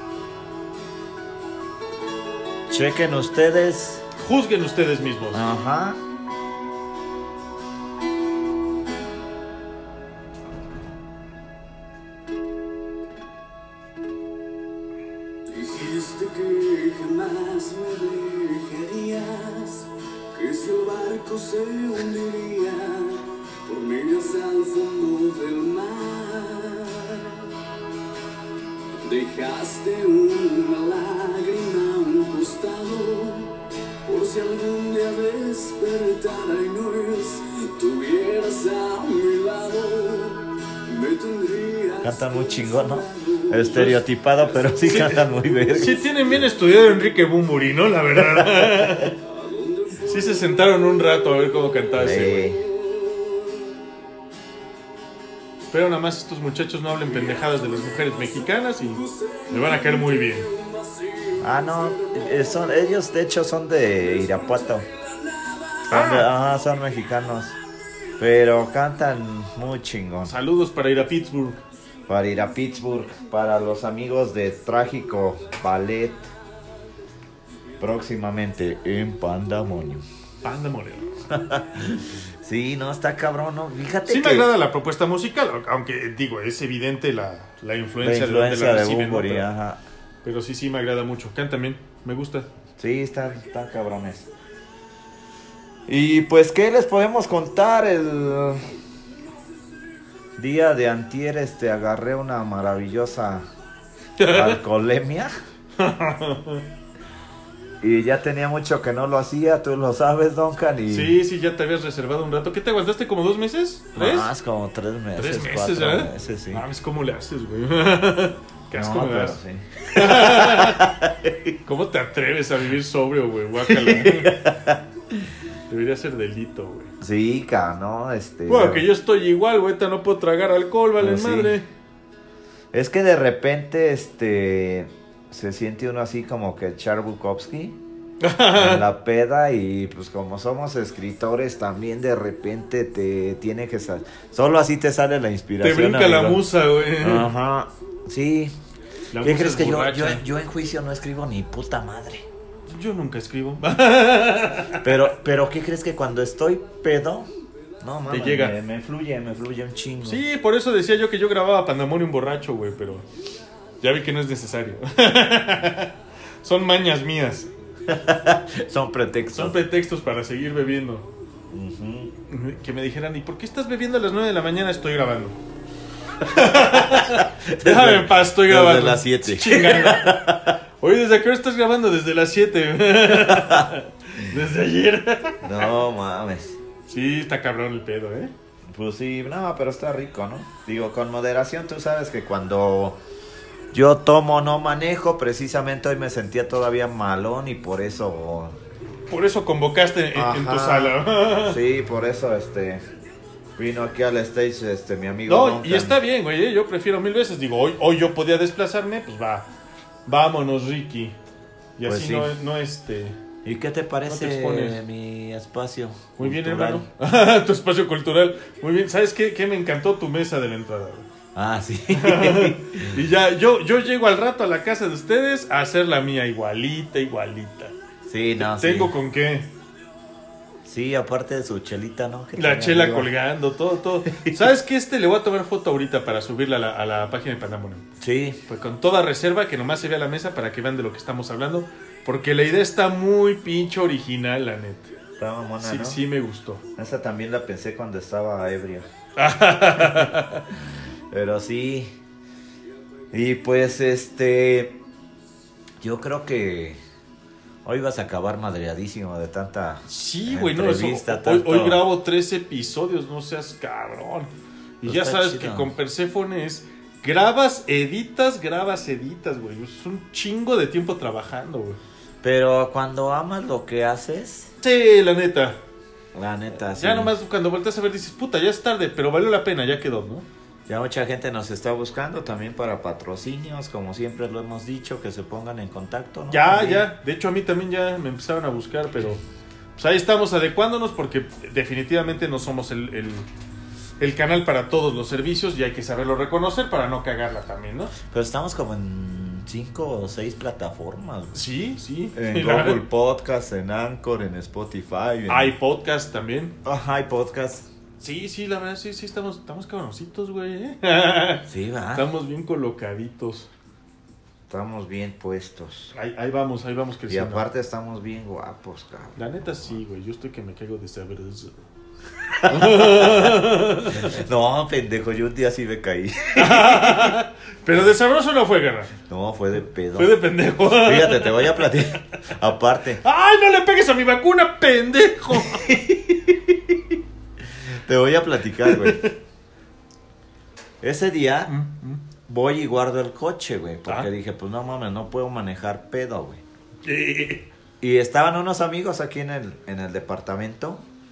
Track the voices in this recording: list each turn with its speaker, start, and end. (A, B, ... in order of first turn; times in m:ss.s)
0:02.7-0:04.0 A
0:04.2-0:05.5 B
0:05.3-0:06.0 A
0:15.5-0:27.5 C
0:29.0-0:44.0 C
0:42.0-0:46.1 A
0:43.7-0:44.0 B
0:44.5-0:45.8 C
0:44.8-0:49.2 B
0:49.2-0:50.7 C
0:50.0-0:52.5 B
0:52.0-0:52.6 A
0:52.2-0:53.8 C
0:55.7-1:00.5 B
0:57.0-1:02.9 C
1:01.4-1:04.9 A
1:04.0-1:06.1 C
1:05.9-1:07.6 A
1:05.9-1:06.3 B
1:08.2-1:10.3 A
1:10.2-1:11.6 B
1:12.1-1:16.3 A
1:17.8-1:20.0 A
1:20.4-1:21.3 B
1:21.3-1:24.5 A
1:24.1-1:29.5 B
1:28.0-1:29.8 A
1:30.2-1:32.5 B
1:32.8-1:34.3 A
1:35.9-1:38.7 A
1:40.4-1:43.4 A
1:44.2-1:44.6 B
1:44.3-1:45.3 A
1:45.8-1:46.6 B
1:47.8-1:51.2 A
1:50.9-1:54.3 B
1:54.0-1:56.6 A
1:55.2-1:59.4 B
1:58.7-2:01.5 A
1:59.9-2:00.9 B
2:01.6-2:04.4 B
2:03.6-2:05.3 A
2:05.7-2:06.9 B
2:07.0-2:08.8 A
2:08.5-2:11.7 B
2:11.0-2:11.6 A
2:12.7-2:17.8 A
2:18.2-2:18.8 B
2:18.6-2:26.4 A
2:25.6-2:27.3 B
2:27.0-2:28.6 A
2:29.1-2:30.2 B
2:29.2-2:32.3 A
2:32.7-2:35.1 B
2:34.8-2:37.3 A
2:37.8-2:40.2 A
2:38.1-2:38.6 B
2:40.0-2:43.1 B
2:43.8-2:47.5 B
2:47.9-2:49.6 A
2:49.3-2:51.1 B
2:51.5-2:52.1 A
2:52.3-2:55.4 B
2:56.2-3:05.7 B
2:56.4-3:00.6 A
3:03.1-3:03.7 A
3:05.4-3:06.6 A
3:06.9-3:08.3 B
3:08.7-3:13.0 A
3:13.7-3:18.6 A
3:19.1-3:21.6 B
3:20.2-3:22.8 A
3:23.6-3:26.0 A
3:25.3-3:29.5 B
3:30.1-3:31.2 B
3:31.8-3:33.2 B
3:31.8-3:32.4 A
3:33.4-3:36.9 A
3:34.1-3:34.8 B
3:36.2-3:41.1 B
3:41.4-3:43.0 A
3:41.9-3:47.8 B
3:48.1-3:48.9 A
3:48.4-3:49.5 B
3:50.6-3:53.1 A
3:52.4-3:57.9 B
3:54.1-3:54.4 A
3:58.0-3:58.4 A
3:58.5-4:04.9 B
4:05.2-4:06.0 A
4:05.6-4:06.6 B
4:06.8-4:08.9 A
4:09.2-4:10.5 B
4:09.8-4:10.1 A
4:11.1-4:11.9 A
4:13.1-4:14.8 A
4:15.8-4:16.8 A
4:17.6-4:21.8 A
4:19.9-4:31.8 B
4:24.8-4:25.7 A
4:32.2-4:34.5 A
4:34.6-4:35.6 B
4:36.1-4:37.1 A
4:36.6-4:40.3 B
4:40.7-4:46.9 A
4:46.3-4:49.2 B
4:49.8-4:53.3 B
4:54.0-4:57.9 B
4:58.0-5:01.4 A
5:01.3-5:02.8 B
5:02.1-5:05.6 A
5:05.3-5:06.6 B
5:06.6-5:07.7 A
5:08.0-5:13.5 B
5:11.5-5:12.1 A
5:14.5-5:15.9 A
5:15.9-5:17.4 B
5:17.1-5:19.2 A
5:19.2-5:21.6 B
5:22.4-5:24.2 B
5:22.4-5:27.2 A
5:26.4-5:29.0 B
5:29.0-5:33.0 A
5:29.9-5:31.7 B
5:33.0-5:35.7 B
5:35.5-5:37.0 A
5:37.7-5:39.0 A
5:38.6-5:39.1 B
5:40.8-5:41.5 A
5:41.5-5:42.0 B
5:42.3-5:46.4 A
5:46.8-5:47.5 B
5:47.8-5:50.8 A